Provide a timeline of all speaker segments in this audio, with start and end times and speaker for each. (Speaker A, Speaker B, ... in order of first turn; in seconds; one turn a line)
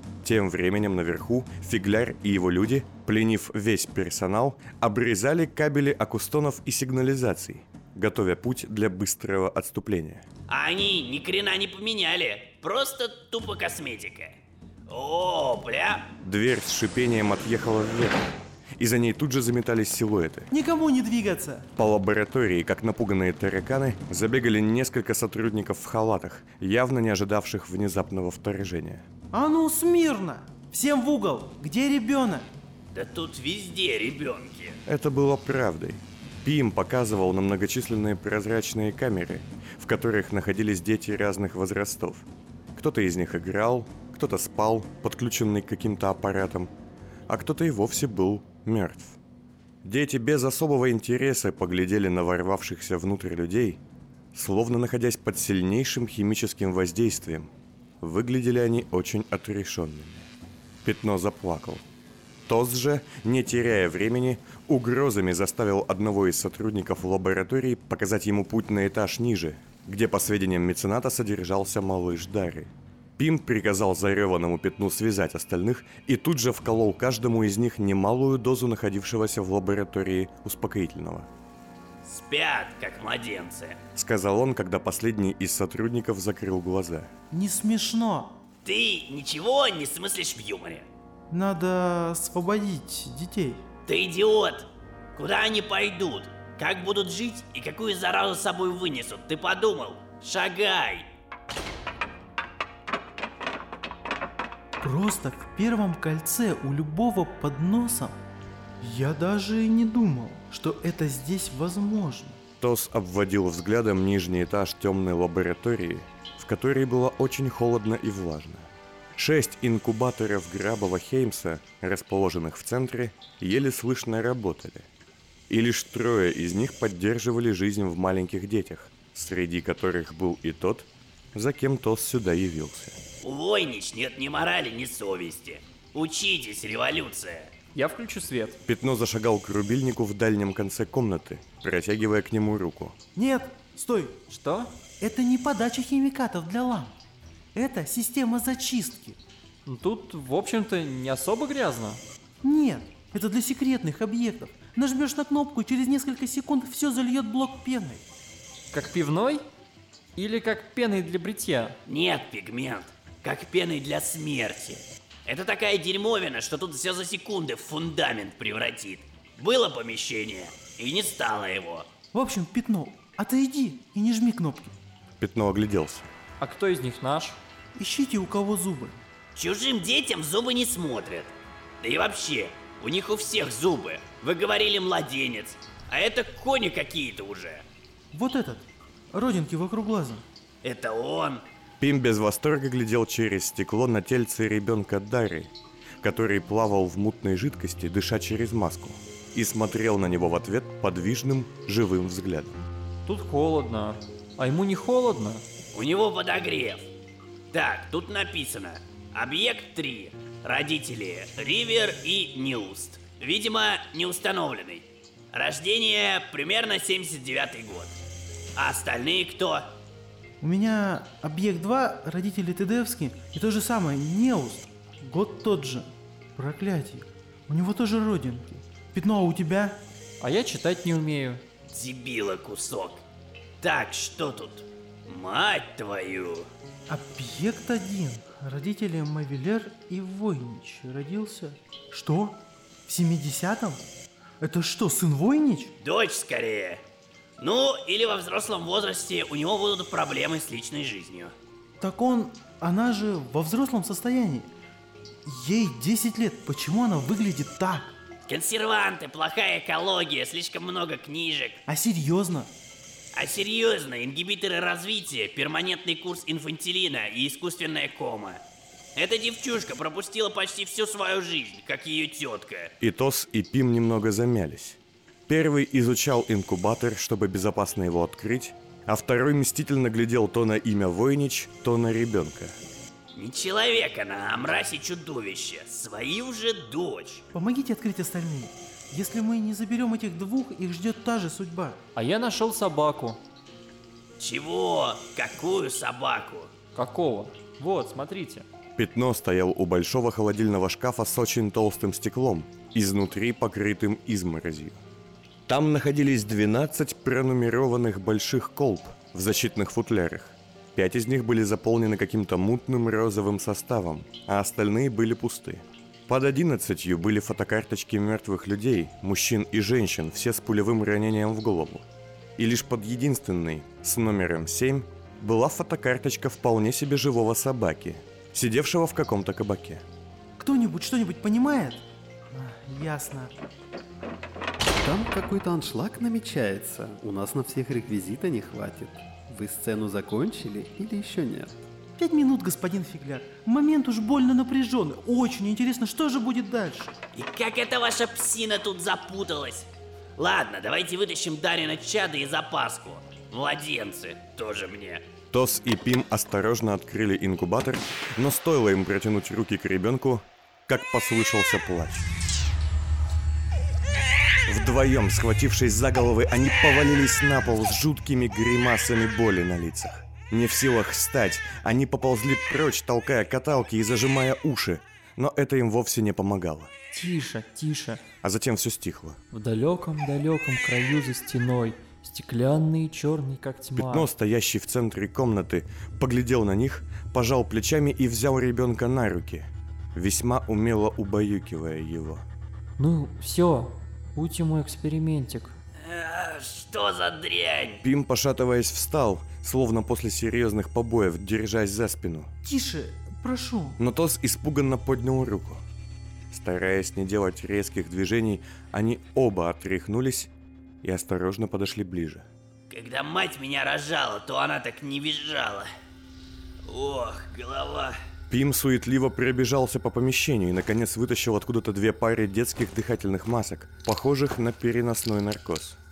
Speaker A: 0.2-10.2
Speaker B: 10.5-14.4
Speaker B: 14.9-16.1
Speaker A: 16.2-20.5
Speaker C: 20.5-21.7
Speaker A: 21.8-29.1
Speaker C: 29.3-32.5
Speaker B: 32.9-34.8
Speaker A: 34.9-46.7
Speaker A: 47.3-49.2
Speaker A: 49.8-53.8
Speaker A: 54.3-60.3
Speaker A: 60.8-61.8
Speaker A: 62.5-81.3
Speaker B: 82.0-83.8
Speaker A: 83.9-87.1
Speaker C: 87.3-88.4
Speaker B: 88.6-90.9
Speaker C: 91.3-93.6
Speaker B: 93.9-101.1
Speaker C: 104.8-108.2
Speaker C: 108.8-112.4
Speaker A: 112.6-124.9
Speaker A: 125.5-133.0
Speaker B: 133.2-137.5
Speaker D: 137.7-138.6
Speaker A: 138.7-142.9
Speaker C: 143.1-144.2
Speaker D: 144.3-144.7
Speaker C: 145.0-147.0
Speaker C: 147.5-149.2
Speaker D: 149.6-152.0
Speaker C: 152.4-158.0
Speaker D: 158.7-159.4
Speaker D: 160.2-161.8
Speaker B: 161.9-171.9
Speaker C: 172.1-174.8
Speaker A: 175.2-176.1
Speaker D: 176.4-177.4
Speaker C: 177.8-179.0
Speaker B: 179.3-187.6
Speaker C: 188.1-190.2
Speaker B: 190.6-191.4
Speaker A: 191.8-195.5
Speaker A: 196.0-202.6
Speaker D: 203.1-205.4
Speaker B: 205.7-206.9
Speaker B: 207.5-218.0
Speaker B: 218.6-219.6
Speaker C: 220.4-229.8
Speaker D: 230.2-231.4
Speaker B: 231.7-233.0
Speaker B: 233.6-236.5
Speaker C: 236.9-243.8
Speaker C: 244.4-245.7
Speaker B: 245.8-246.8
Speaker B: 247.4-251.3
Speaker C: 251.8-254.5
Speaker C: 255.2-257.9
Speaker B: 258.3-261.6
Speaker C: 261.7-262.5
Speaker B: 263.1-268.4
Speaker B: 269.0-272.7
Speaker A: 272.8-282.6
Speaker B: 283.1-287.2
Speaker C: 287.3-291.8
Speaker D: 291.9-293.2
Speaker B: 294.2-296.5
Speaker D: 296.7-298.5
Speaker A: 298.8-304.8
Speaker A: 305.5-321.9
Speaker A: 322.4-329.8
Speaker C: 330.4-333.4
Speaker E: 334.8-341.5
Speaker C: 342.0-347.0
Speaker B: 347.1-355.0
Speaker A: 355.3-362.1
Speaker A: 364.5-376.7
Speaker D: 376.9-378.0
Speaker A: 378.2-379.2
Speaker D: 379.3-384.1
Speaker A: 383.8-392.2
Speaker D: 392.8-395.5
Speaker B: 395.8-397.8
Speaker A: 397.8-402.3
Speaker C: 402.4-403.8
Speaker A: 403.8-405.6
Speaker A: 406.3-410.3
Speaker A: 410.8-412.2
Speaker B: 412.7-415.6
Speaker B: 416.7-417.9
Speaker A: 418.3-425.8